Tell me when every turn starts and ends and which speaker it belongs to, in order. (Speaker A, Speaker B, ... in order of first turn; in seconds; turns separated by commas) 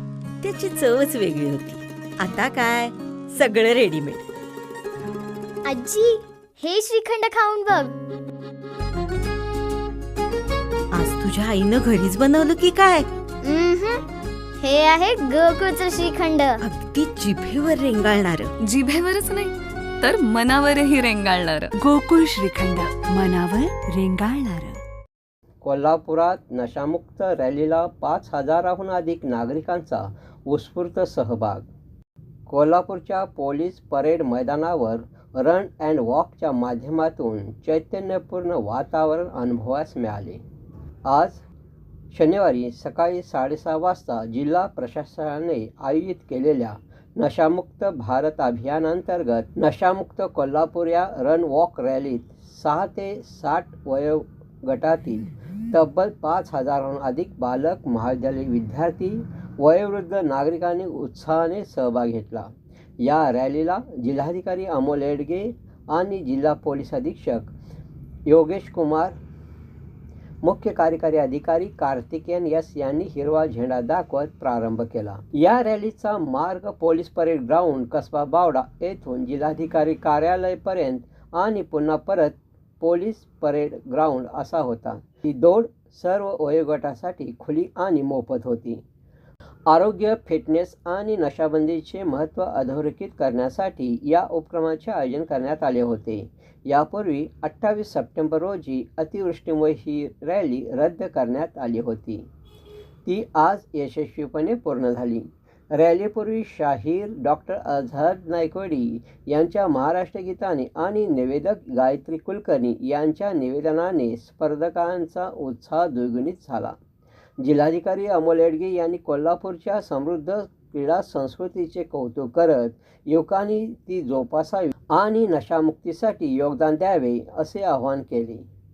Speaker A: 0.4-4.2, Speaker B: 5.6-7.9, Speaker A: 10.9-13.1, Speaker B: 13.4-14.0, Speaker B: 14.6-16.6, Speaker A: 16.6-18.5, Speaker C: 18.6-21.7, Speaker D: 21.7-24.8, Speaker E: 25.6-31.7, Speaker E: 32.5-40.4, Speaker E: 41.0-41.4, Speaker E: 42.1-67.5, Speaker E: 68.3-69.2, Speaker E: 70.4-88.8, Speaker E: 89.7-102.2, Speaker E: 103.0-116.8, Speaker E: 117.4-128.4